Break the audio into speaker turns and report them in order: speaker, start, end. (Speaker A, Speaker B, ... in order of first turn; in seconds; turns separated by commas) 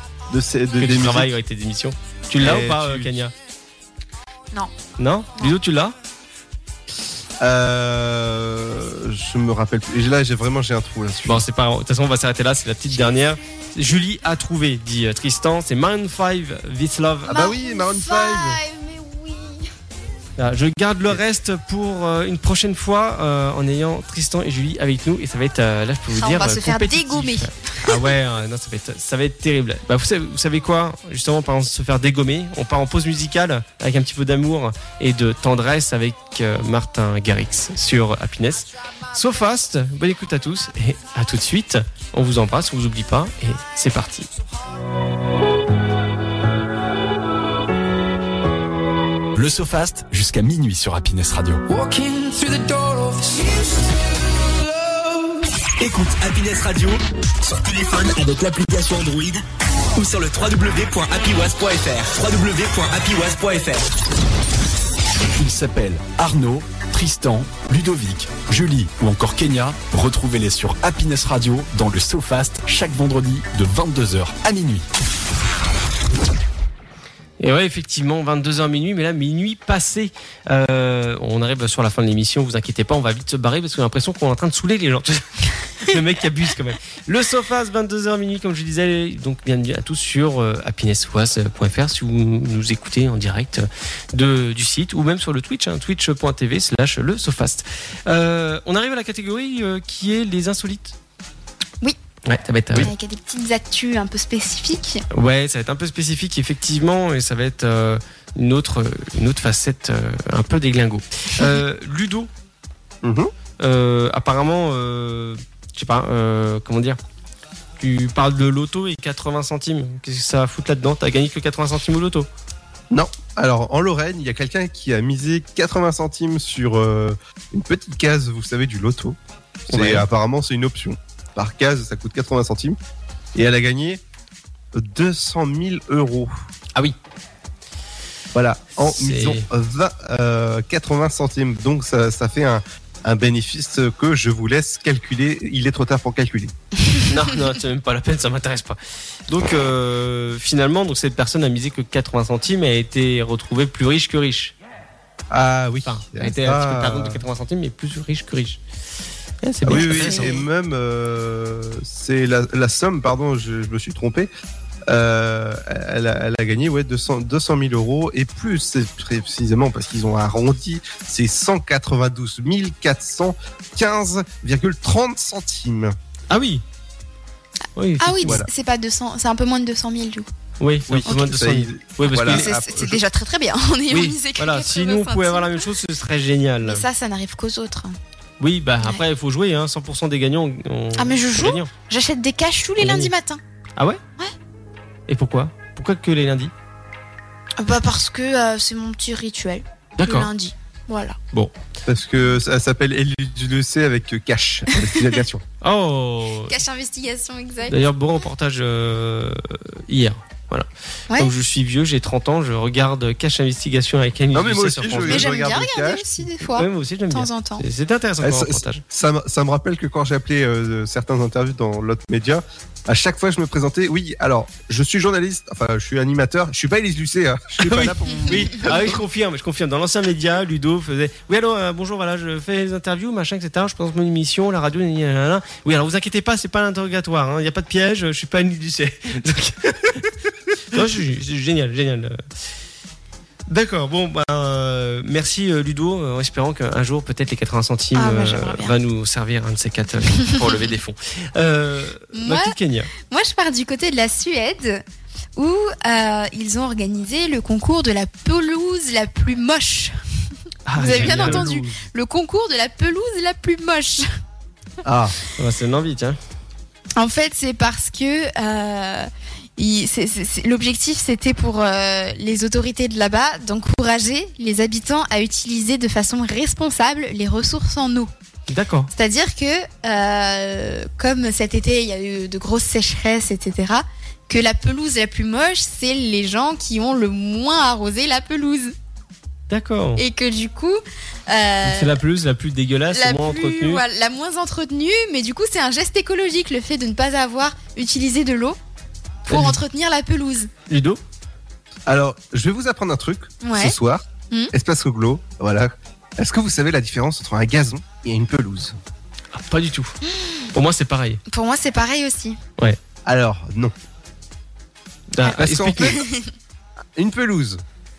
Speaker A: 0.3-1.3, Speaker B: 0.8-3.3, Speaker A: 2.4-3.1, Speaker B: 5.0-5.9, Speaker A: 7.4-11.4, Speaker B: 11.2-17.5, Speaker A: 17.3-18.6, Speaker C: 17.3-19.7, Speaker B: 20.4-44.3, Speaker C: 26.1-28.0, Speaker D: 49.4-51.6, Speaker E: 51.7-53.8, Speaker E: 54.6-55.4, Speaker F: 55.8-59.4, Speaker F: 59.9-63.9, Speaker D: 65.4-74.9, Speaker B: 77.4-101.0, Speaker B: 102.3-102.9, Speaker C: 102.8-105.0, Speaker B: 105.1-112.3, Speaker A: 113.0-113.3, Speaker B: 113.6-117.0, Speaker B: 117.8-122.3, Speaker A: 122.9-129.2, Speaker A: 129.7-132.8, Speaker B: 129.7-130.1, Speaker A: 133.3-134.0, Speaker A: 134.7-136.3, Speaker A: 138.3-146.5, Speaker B: 138.8-139.5, Speaker B: 147.1-148.8, Speaker B: 149.3-154.5, Speaker A: 155.3-157.2, Speaker B: 155.9-158.6, Speaker B: 159.4-160.4, Speaker A: 159.6-164.3, Speaker C: 159.7-160.4, Speaker A: 164.9-175.9, Speaker B: 176.3-176.6, Speaker B: 177.8-178.4, Speaker C: 178.0-180.3, Speaker A: 178.2-178.5, Speaker B: 180.6-182.5, Speaker A: 180.9-183.0, Speaker C: 182.3-185.6, Speaker B: 183.9-186.8, Speaker C: 186.6-188.0, Speaker B: 188.4-191.7, Speaker C: 190.9-193.4, Speaker B: 192.8-193.1, Speaker B: 195.1-196.5, Speaker C: 197.6-201.2, Speaker B: 200.0-200.3, Speaker A: 201.9-205.4, Speaker B: 205.6-206.6, Speaker C: 206.5-207.8, Speaker B: 207.7-215.3, Speaker A: 214.3-216.1, Speaker C: 215.1-217.7, Speaker B: 216.4-218.8, Speaker A: 218.2-229.0, Speaker B: 227.6-240.1, Speaker B: 240.7-242.2, Speaker B: 243.5-252.9, Speaker C: 247.9-248.7, Speaker C: 250.3-250.6, Speaker C: 252.1-254.8, Speaker C: 255.4-260.0, Speaker B: 260.7-261.5, Speaker A: 260.8-261.7, Speaker C: 260.8-264.1, Speaker A: 264.8-265.1, Speaker B: 265.4-266.2, Speaker C: 266.9-278.1, Speaker B: 278.5-278.9, Speaker C: 278.9-288.7, Speaker B: 289.5-290.0, Speaker C: 290.0-292.0, Speaker B: 291.6-293.8, Speaker C: 292.9-298.6, Speaker C: 299.3-300.5, Speaker B: 299.3-299.6, Speaker B: 300.7-301.0, Speaker A: 301.9-308.8, Speaker C: 303.4-303.8, Speaker B: 309.3-309.9, Speaker C: 310.1-310.5, Speaker B: 310.5-311.2, Speaker C: 311.3-312.4, Speaker A: 313.1-313.7, Speaker B: 315.1-316.0, Speaker C: 315.2-316.3, Speaker A: 315.3-315.9, Speaker A: 316.9-317.6